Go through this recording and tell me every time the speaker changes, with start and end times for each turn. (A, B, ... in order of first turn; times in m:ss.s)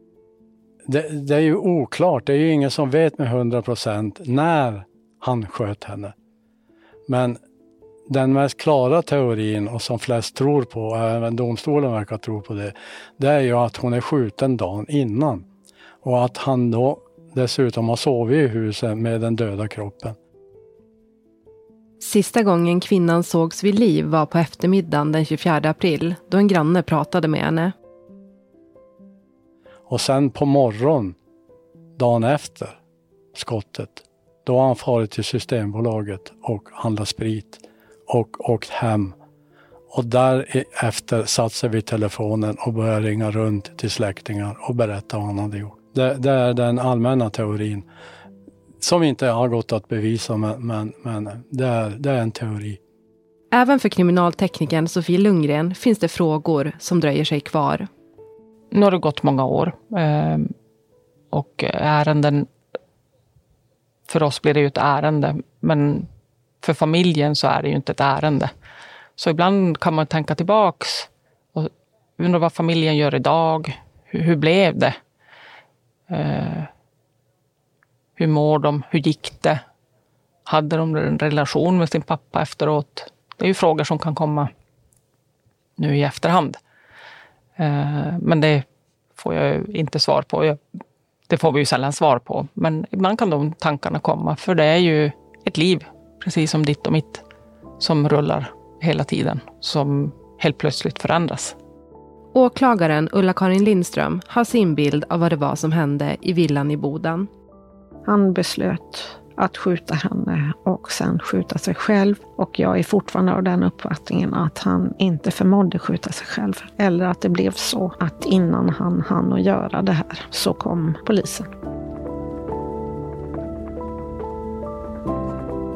0:00.9-0:06.1 A
0:07.1-0:07.4 A
0:08.1-0:15.5 A
0:16.0-0:20.2 A
0:22.0-0:27.7 B
0:29.9-0:31.2 A
0:32.0-0:32.8 A
0:33.4-0:39.2 A
0:39.9-0:47.9 A
0:48.8-0:52.8 A
0:53.5-0:57.9 B
0:58.7-1:00.5 C
1:01.3-1:02.5 C
1:04.1-1:06.1 C
1:06.6-1:08.5 C
1:09.2-1:15.0 C
1:16.1-1:16.7 C
1:18.2-1:19.6 C
1:20.5-1:24.5 C
1:25.8-1:26.6 C
1:27.6-1:28.7 C
1:29.2-1:30.6 C
1:31.3-1:37.2 C
1:37.8-1:41.6 C
1:42.3-1:47.3 B
1:48.1-2:01.5 D